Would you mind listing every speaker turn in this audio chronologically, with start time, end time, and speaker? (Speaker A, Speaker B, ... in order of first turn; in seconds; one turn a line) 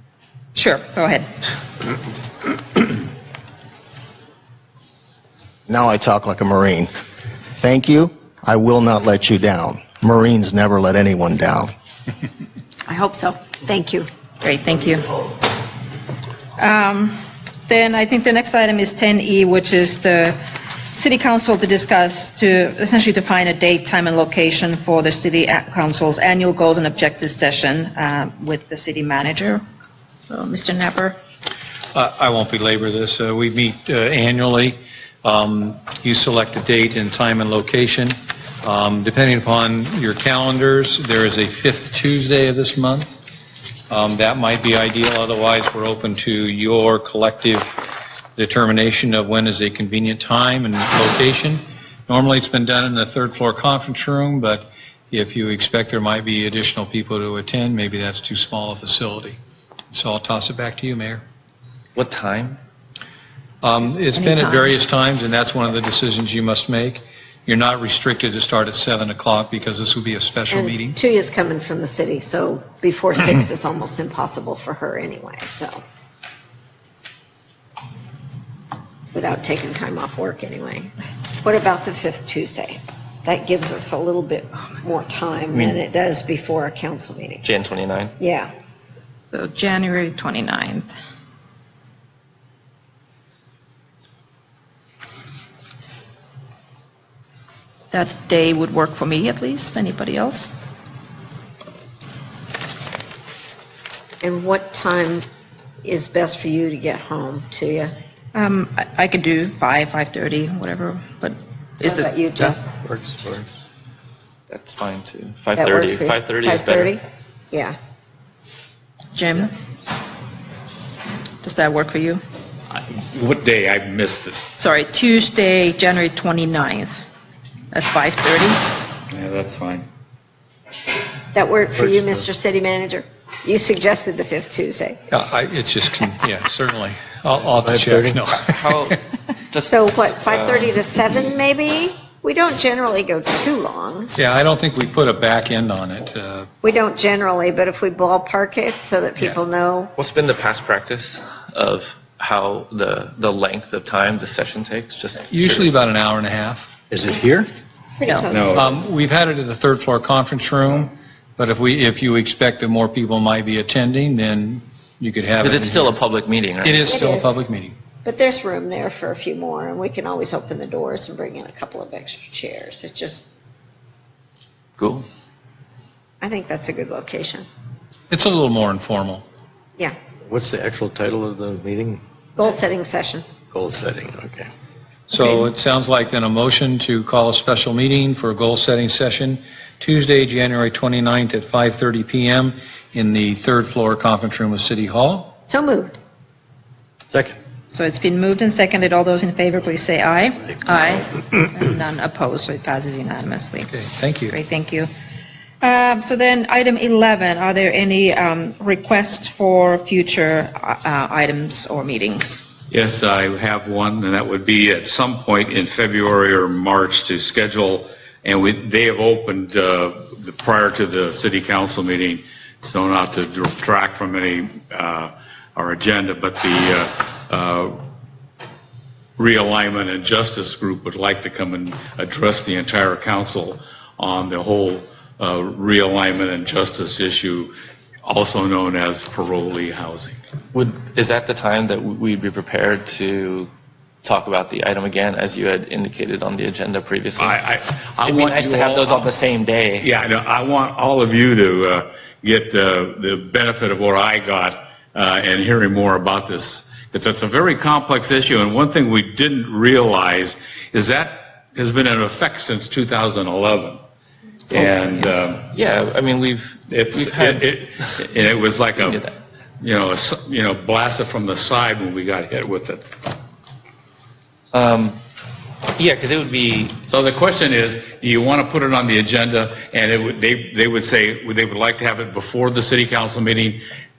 Speaker A: 0.5-1.3
Speaker B: 5.7-6.9
Speaker B: 7.6-11.7
Speaker C: 12.9-14.1
Speaker A: 14.4-15.1
Speaker A: 16.6-20.4
Speaker A: 20.9-29.6
Speaker A: 30.3-31.1
Speaker D: 31.9-43.2
Speaker D: 43.9-59.4
Speaker D: 59.9-61.2
Speaker E: 62.0-62.6
Speaker D: 63.6-71.0
Speaker A: 64.1-64.8
Speaker C: 70.5-75.8
Speaker C: 79.1-87.4
Speaker E: 85.5-85.8
Speaker E: 87.4-88.1
Speaker C: 88.2-88.5
Speaker A: 89.2-90.9
Speaker A: 97.9-100.5
Speaker C: 104.2-105.2
Speaker C: 105.8-107.9
Speaker A: 108.3-112.1
Speaker C: 111.8-112.6
Speaker F: 112.4-113.5
Speaker E: 114.5-117.0
Speaker C: 115.5-117.8
Speaker A: 119.1-119.5
Speaker A: 121.4-122.2
Speaker G: 122.7-124.4
Speaker A: 124.5-127.0
Speaker A: 127.7-128.6
Speaker G: 129.1-129.9
Speaker C: 131.3-135.0
Speaker F: 131.8-132.2
Speaker D: 135.1-139.0
Speaker F: 137.4-138.3
Speaker E: 138.6-141.3
Speaker C: 139.7-144.1
Speaker D: 144.2-146.5
Speaker C: 146.6-149.9
Speaker E: 149.9-155.8
Speaker D: 155.3-156.7
Speaker F: 156.9-157.5
Speaker C: 158.0-158.8
Speaker D: 158.6-165.9
Speaker E: 165.4-166.9
Speaker D: 166.6-167.8
Speaker C: 166.9-167.4
Speaker C: 168.0-173.3
Speaker E: 174.8-175.1
Speaker C: 176.2-177.5
Speaker D: 178.1-179.2
Speaker F: 180.2-182.0
Speaker C: 182.4-183.3
Speaker F: 183.5-184.5
Speaker D: 185.1-195.3
Speaker C: 195.4-196.0
Speaker F: 197.1-197.4
Speaker A: 197.7-204.9
Speaker D: 203.7-204.3
Speaker A: 205.6-212.4
Speaker G: 212.7-227.8
Speaker G: 229.2-237.5
Speaker G: 238.0-240.2
Speaker E: 240.5-243.5
Speaker E: 244.0-247.4
Speaker G: 247.3-248.9
Speaker E: 248.0-249.9
Speaker G: 249.8-263.8
Speaker E: 264.5-268.0
Speaker G: 264.6-265.5
Speaker G: 266.7-272.9
Speaker E: 268.8-269.1
Speaker E: 274.5-275.0
Speaker E: 275.7-276.8
Speaker G: 276.9-283.6